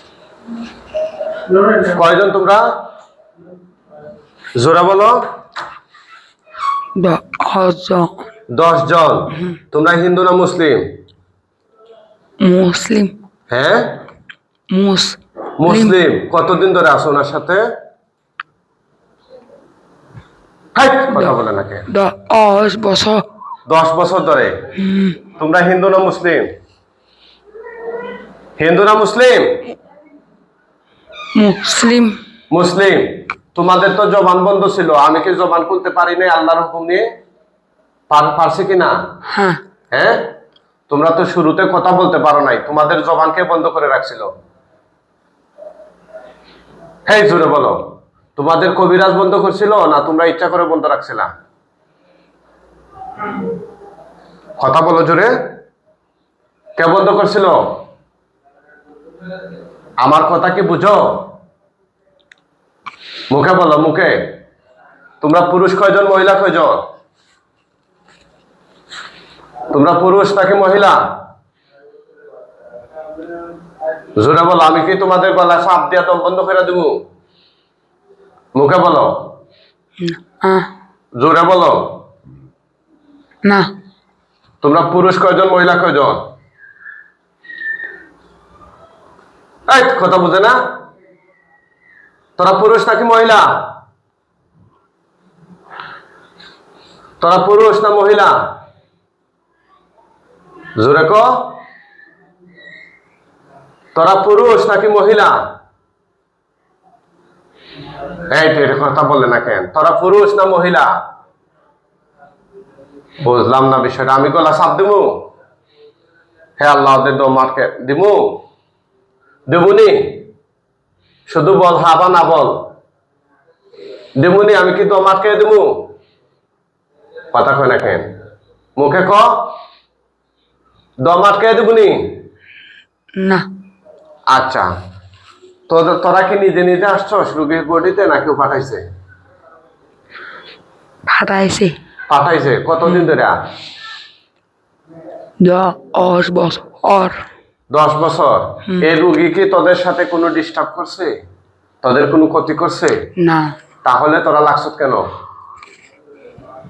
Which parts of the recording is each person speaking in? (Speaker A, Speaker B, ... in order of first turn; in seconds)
Speaker A: 1.8-2.6, 4.6-5.2, 8.5-10.9, 13.5-14.0, 15.6-17.6, 20.7-21.9, 23.7-24.6, 25.4-26.5, 28.6-29.7, 32.5-37.0, 38.1-39.0, 39.9-40.3, 40.9-44.3, 47.1-51.3, 54.6-55.3, 56.8-57.7, 60.0-61.3, 63.3-64.3, 65.2-66.8, 69.7-71.2, 74.2-77.0, 78.5-79.3, 81.2-82.0, 84.6-86.2, 89.7-90.6, 92.4-93.7, 97.2-98.5, 100.8-101.6, 103.9-105.4, 108.3-110.9, 113.2-115.2, 116.6-118.4, 119.5-120.2, 121.3-122.6, 124.2-125.8, 127.3-128.1, 128.8-129.5, 131.0-132.1, 134.3-134.7, 135.7-138.8, 142.1-143.4, 147.7-151.1, 151.8-153.0, 153.8-155.1
Speaker B: 7.0-8.2, 12.4-13.1, 14.7-15.9, 21.1-21.3, 21.9-23.2, 24.8-25.2, 31.3-32.2, 39.3-39.6, 80.0-80.7, 83.4-83.7, 133.2-133.4, 141.1-141.7, 145.4-147.2, 153.2-153.5